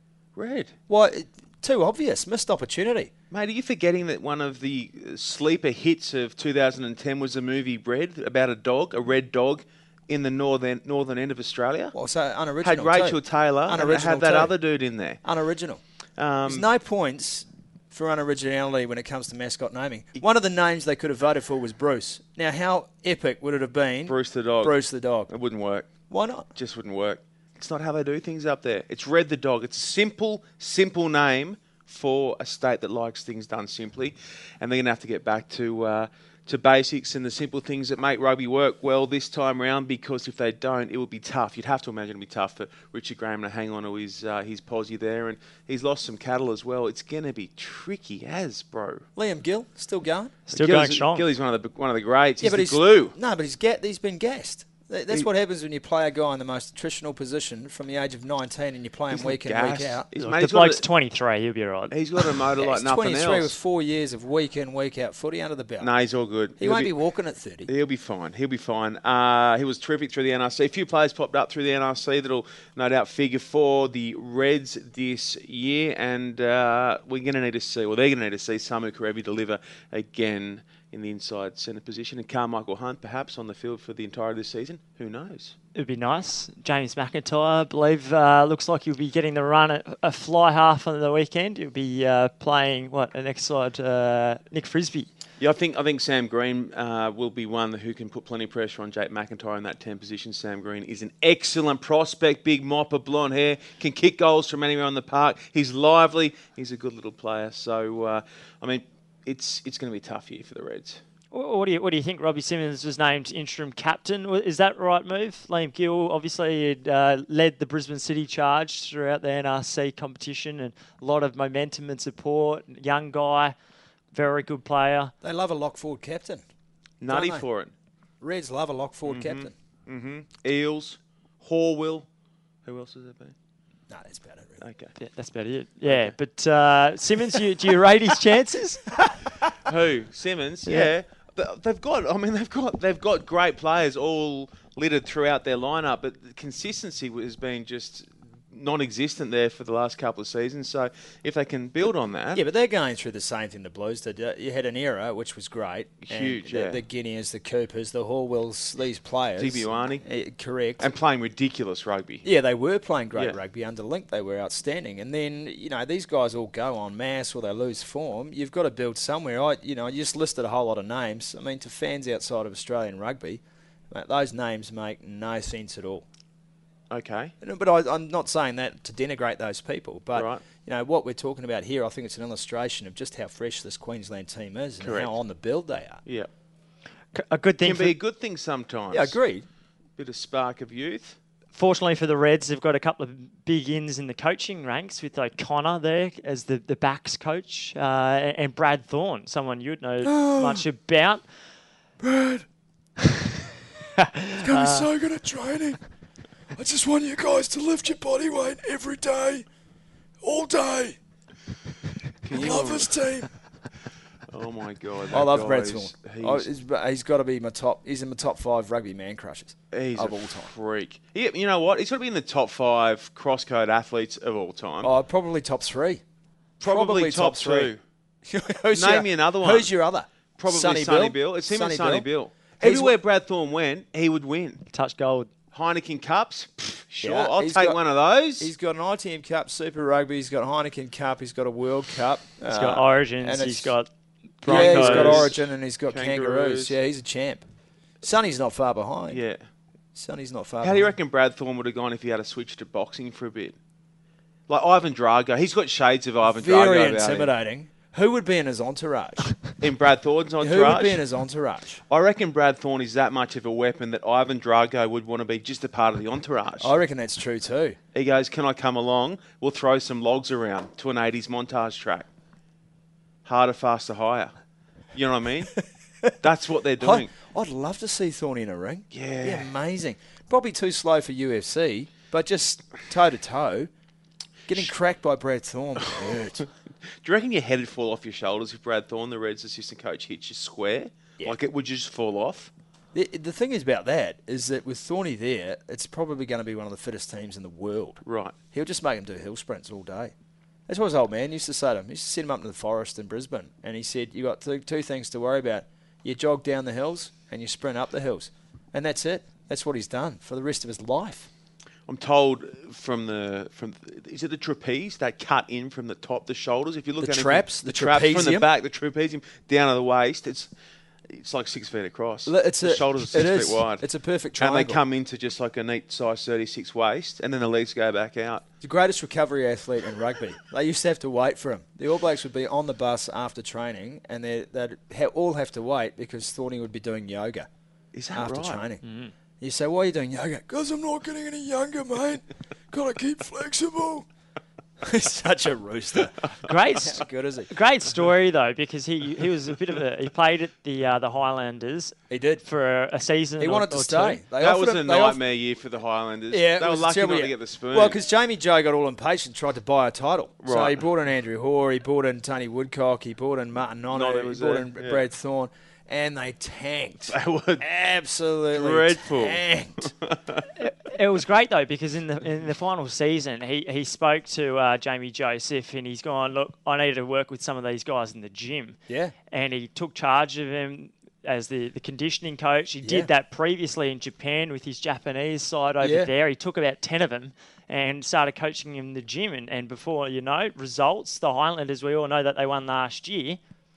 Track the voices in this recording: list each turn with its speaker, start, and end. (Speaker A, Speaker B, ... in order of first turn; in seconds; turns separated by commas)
Speaker A: 0.4-0.8, Speaker B: 0.9-3.1, Speaker A: 3.3-11.9, Speaker B: 11.9-14.5, Speaker A: 12.6-15.2, Speaker B: 15.2-15.8, Speaker A: 16.2-16.7, Speaker B: 16.4-25.3, Speaker A: 24.1-24.8, Speaker A: 25.3-25.9, Speaker B: 26.1-26.5, Speaker A: 26.6-49.0, Speaker B: 49.2-50.4, Speaker C: 50.5-51.2, Speaker A: 50.5-53.2, Speaker B: 52.4-60.1, Speaker A: 59.1-60.8, Speaker C: 60.2-61.9, Speaker A: 61.9-63.6, Speaker B: 62.6-65.9, Speaker A: 65.8-66.9, Speaker B: 66.6-67.7, Speaker A: 67.7-85.5, Speaker C: 85.8-95.1, Speaker A: 95.4-111.0, Speaker C: 111.3-123.5, Speaker C: 124.1-125.1, Speaker B: 125.2-126.4, Speaker A: 127.0-127.7, Speaker B: 127.1-127.5, Speaker B: 128.2-129.5, Speaker A: 129.1-132.1, Speaker A: 132.7-133.3, Speaker B: 133.9-134.6, Speaker A: 134.6-134.9, Speaker C: 135.0-138.8, Speaker A: 135.9-136.1, Speaker A: 139.5-152.4, Speaker B: 152.3-160.9, Speaker A: 156.0-156.8, Speaker A: 159.4-160.0, Speaker A: 160.8-162.2, Speaker B: 162.2-176.1, Speaker A: 176.9-177.3, Speaker B: 177.4-186.0, Speaker A: 180.1-180.4, Speaker A: 184.8-185.1, Speaker C: 187.1-187.9, Speaker A: 187.6-189.2, Speaker B: 188.9-189.5, Speaker A: 190.0-191.2, Speaker C: 191.5-201.2, Speaker B: 200.0-200.7, Speaker B: 202.0-202.4, Speaker C: 204.0-204.9, Speaker B: 204.3-205.8, Speaker B: 206.6-209.5, Speaker B: 210.2-211.0, Speaker A: 212.2-213.0, Speaker B: 212.3-213.3, Speaker A: 214.3-216.5, Speaker B: 215.1-220.5, Speaker A: 219.7-224.9, Speaker B: 224.8-226.0, Speaker A: 226.6-227.8, Speaker B: 226.6-227.7, Speaker B: 228.3-232.1, Speaker A: 228.7-229.7, Speaker A: 230.4-234.6, Speaker B: 232.6-232.9, Speaker C: 234.7-235.3, Speaker A: 235.5-238.5, Speaker B: 237.0-237.8, Speaker B: 238.4-243.8, Speaker C: 242.5-243.9, Speaker C: 244.4-245.3, Speaker B: 244.4-247.4, Speaker A: 244.5-246.8, Speaker B: 248.0-249.2, Speaker A: 249.1-249.4, Speaker B: 249.9-250.9, Speaker A: 250.6-253.6, Speaker A: 254.5-257.3, Speaker B: 256.2-259.4, Speaker A: 259.6-261.0, Speaker B: 260.4-261.8, Speaker A: 261.9-266.8, Speaker B: 266.6-267.8, Speaker A: 267.9-272.1, Speaker A: 273.2-274.3, Speaker A: 274.9-275.6, Speaker A: 276.2-277.1, Speaker B: 276.8-283.7, Speaker A: 278.9-279.5, Speaker B: 284.5-286.4, Speaker A: 285.9-286.5, Speaker A: 287.0-292.5, Speaker B: 292.9-298.0, Speaker A: 298.1-298.4, Speaker B: 298.5-300.1, Speaker B: 300.7-311.3, Speaker A: 311.9-320.5, Speaker B: 317.0-318.5, Speaker A: 321.1-323.8, Speaker B: 322.3-324.8, Speaker A: 324.4-328.4, Speaker B: 328.6-337.5, Speaker A: 337.9-338.6, Speaker B: 338.1-338.8, Speaker C: 338.8-339.1, Speaker B: 339.4-344.1, Speaker B: 344.8-346.2, Speaker C: 346.4-354.2, Speaker B: 346.8-347.5, Speaker B: 352.1-352.4, Speaker B: 353.4-355.2, Speaker A: 354.4-358.0, Speaker B: 356.3-369.9, Speaker A: 360.4-360.8, Speaker A: 363.9-365.0, Speaker A: 367.1-367.6, Speaker A: 368.5-370.4, Speaker C: 370.6-378.8, Speaker B: 378.9-379.1, Speaker C: 379.3-393.4, Speaker B: 382.8-383.1, Speaker B: 385.8-386.1